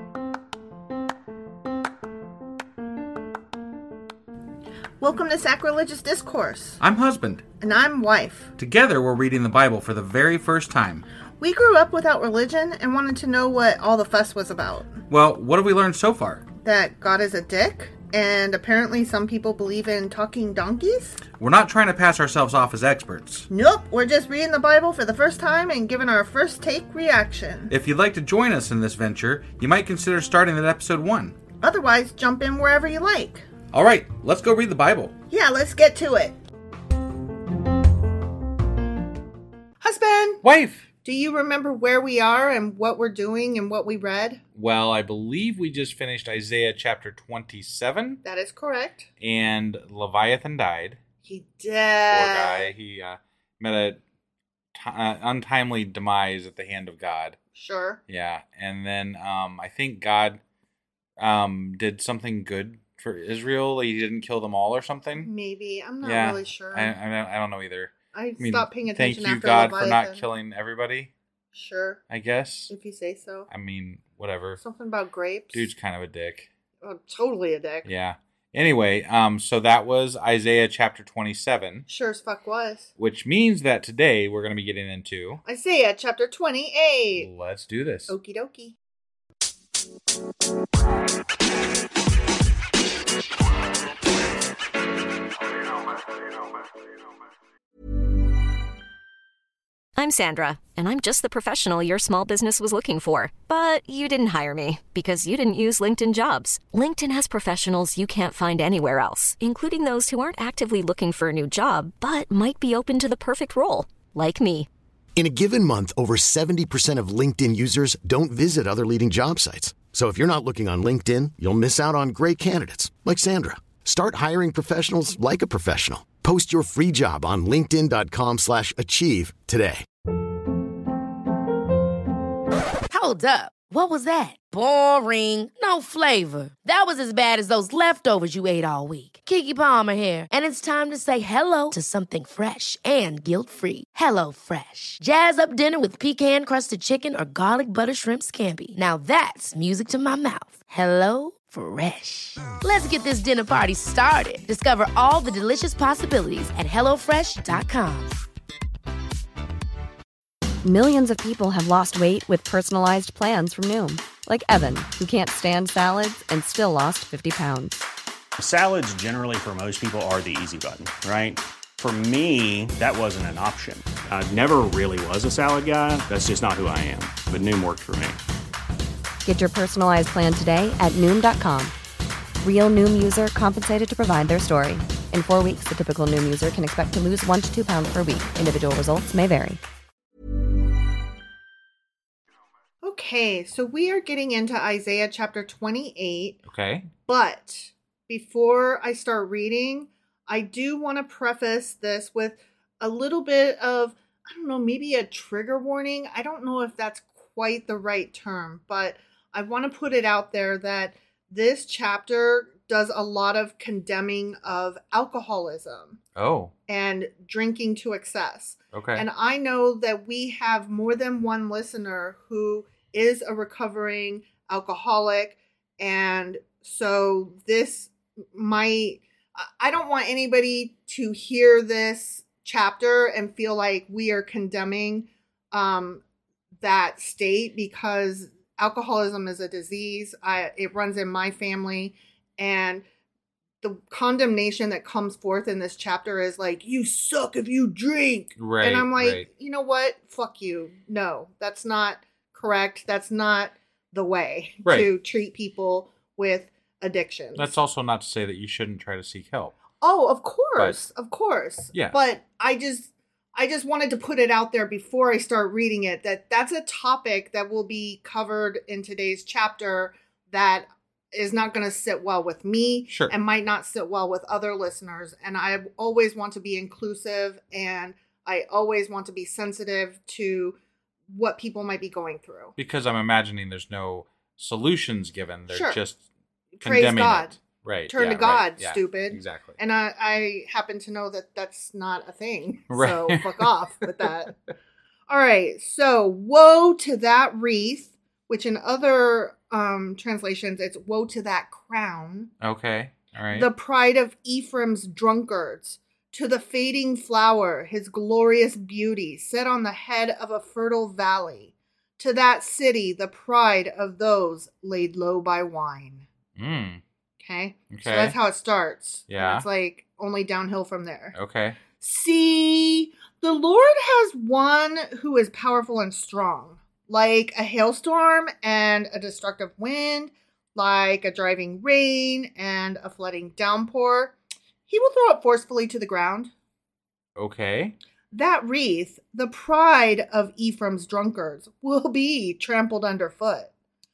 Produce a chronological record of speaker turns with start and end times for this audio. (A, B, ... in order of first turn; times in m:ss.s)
0:05.0-0:06.8 A
0:06.8-0:07.4 B
0:07.6-0:08.5 A
0:08.6-0:11.0 B
0:11.4-0:15.0 A
0:15.1-0:16.4 B
0:16.6-0:21.2 A
0:21.4-0:23.5 B
0:23.5-0:27.7 A
0:27.7-0:31.4 B
0:31.6-0:33.4 A
0:33.7-0:35.2 B
0:35.3-0:36.3 A
0:39.8-0:40.4 A
0:40.4-0:40.8 B
0:41.0-0:44.4 A
0:44.6-0:48.2 B
0:48.2-0:49.1 A
0:49.2-0:51.0 B
0:51.2-0:52.7 A
0:52.1-0:54.0 B
0:54.7-0:57.4 B
0:57.5-0:58.0 A
0:58.1-1:00.4 B
1:01.2-1:05.3 B
1:05.2-1:06.9 A
1:06.0-1:11.1 B
1:08.1-1:10.2 A
1:11.5-1:12.0 A
1:12.1-1:12.7 B
1:12.7-1:13.5 A
1:13.5-1:14.6 B
1:14.6-1:15.7 A
1:15.5-1:16.5 B
1:16.8-1:17.9 A
1:17.8-1:21.8 B
1:21.9-1:22.9 A
1:23.0-1:25.4 B
1:25.4-1:27.3 A
1:27.1-1:28.1 B
1:28.1-1:28.7 A
1:40.0-1:54.7 C
1:55.2-2:09.8 D
2:12.9-2:38.1 E
2:40.6-2:47.8 F
2:48.4-2:58.2 G
2:59.2-3:01.7 F
3:02.4-3:09.6 F
3:12.8-3:16.4 A
3:16.5-3:16.9 B
3:17.0-3:36.0 A
3:36.2-3:36.5 B
3:36.7-3:56.0 A
3:38.7-3:39.0 B
3:56.6-4:02.8 A
4:03.6-4:17.5 A
4:08.4-4:09.2 B
4:17.4-4:19.5 B
4:19.8-4:40.6 A
4:32.9-4:33.1 B
4:41.1-4:42.5 A
4:42.6-4:46.0 B
4:45.5-4:45.8 A
4:46.6-4:47.4 A
4:46.6-4:49.6 B
4:47.9-4:54.3 A
4:52.7-4:53.8 B
4:55.1-5:02.3 A
5:02.4-5:03.5 B
5:03.3-5:16.0 A
5:16.4-5:16.8 B
5:17.2-5:21.2 A
5:17.7-5:18.2 B
5:19.1-5:19.4 B
5:21.1-5:21.6 B
5:21.8-5:34.1 A
5:34.7-5:36.3 A
5:37.2-5:37.7 B
5:38.1-5:43.5 A